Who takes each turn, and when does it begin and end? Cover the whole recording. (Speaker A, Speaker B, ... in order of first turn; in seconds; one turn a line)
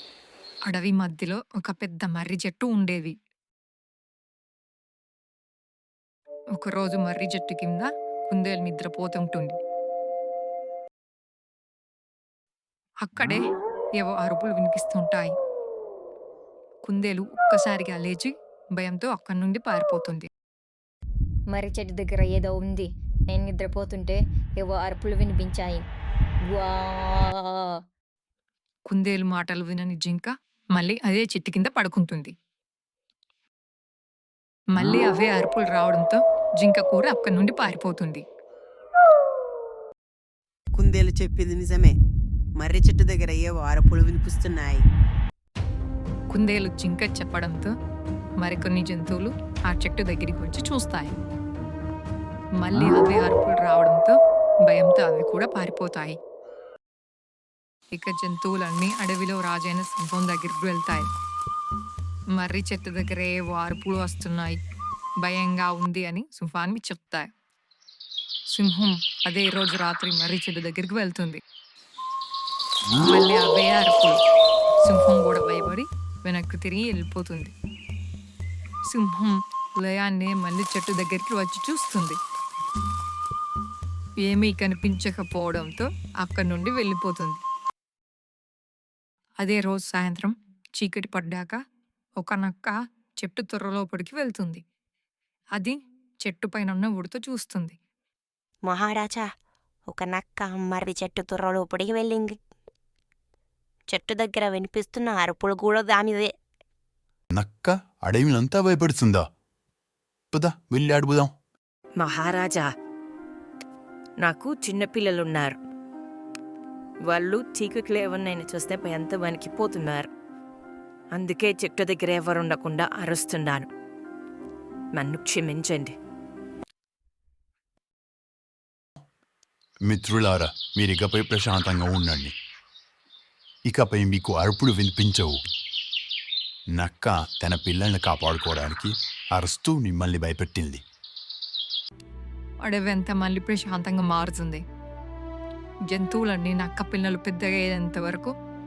Speaker A: 0.7-3.1
Speaker A: 6.6-9.6
Speaker A: 13.0-13.4
Speaker A: 14.0-15.3
Speaker A: 16.8-20.3
Speaker B: 21.5-25.9
Speaker B: 26.5-27.6
Speaker A: 28.9-32.3
Speaker A: 34.7-38.2
Speaker C: 40.7-42.0
Speaker C: 42.6-44.8
Speaker A: 46.3-47.7
Speaker A: 48.4-51.2
Speaker A: 52.6-56.2
Speaker A: 57.9-61.1
Speaker A: 62.4-64.6
Speaker A: 65.2-67.3
Speaker A: 68.5-71.4
Speaker A: 73.0-74.2
Speaker A: 74.8-77.5
Speaker A: 78.9-82.2
Speaker A: 84.2-87.4
Speaker A: 89.4-91.6
Speaker A: 92.2-94.6
Speaker A: 95.5-97.8
Speaker D: 98.6-99.3
Speaker D: 99.9-102.4
Speaker D: 103.9-106.3
Speaker E: 107.4-109.2
Speaker E: 110.3-111.3
Speaker F: 112.0-112.7
Speaker F: 114.2-115.6
Speaker F: 117.1-120.1
Speaker F: 121.1-123.7
Speaker F: 124.9-125.9
Speaker E: 129.9-132.3
Speaker E: 133.7-135.4
Speaker E: 136.8-140.8
Speaker A: 142.6-144.6
Speaker A: 145.9-148.3